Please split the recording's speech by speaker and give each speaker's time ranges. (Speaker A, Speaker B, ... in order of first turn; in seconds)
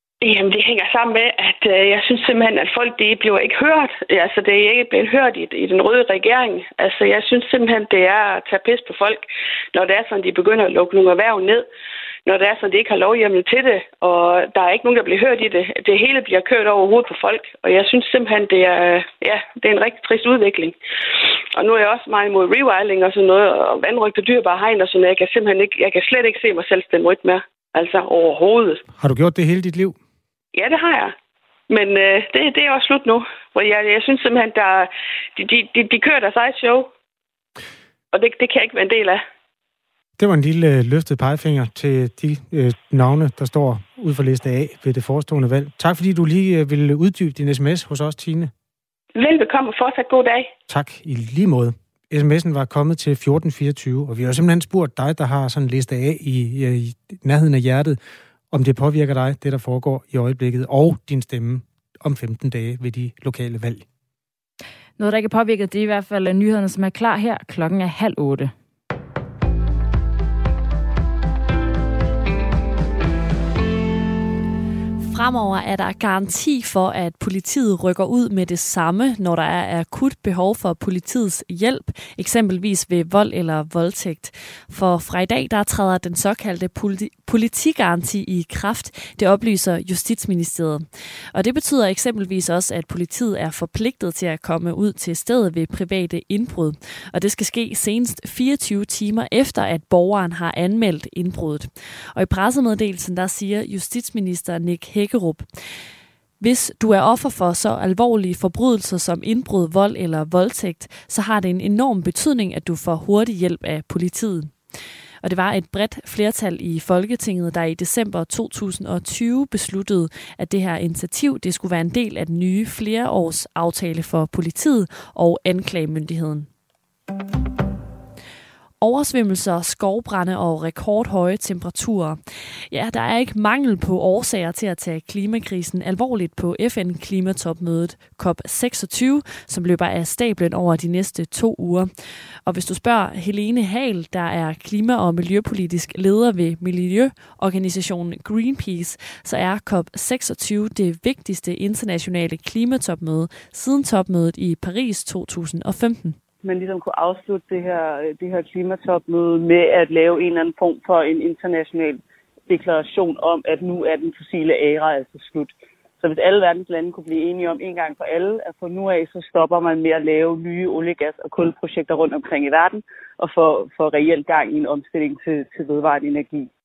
Speaker A: 0.2-11.7, 12.2-20.8, 21.5-28.8, 30.5-31.1, 31.7-36.9, 38.1-39.2, 49.1-50.5
Speaker B: 28.9-30.0, 40.2-48.5, 50.7-58.0, 58.5-63.9
Speaker C: 65.0-68.5
Speaker D: 75.0-105.5, 106.4-114.5, 115.2-126.5, 128.8-141.9, 142.4-156.2
Speaker E: 156.4-176.5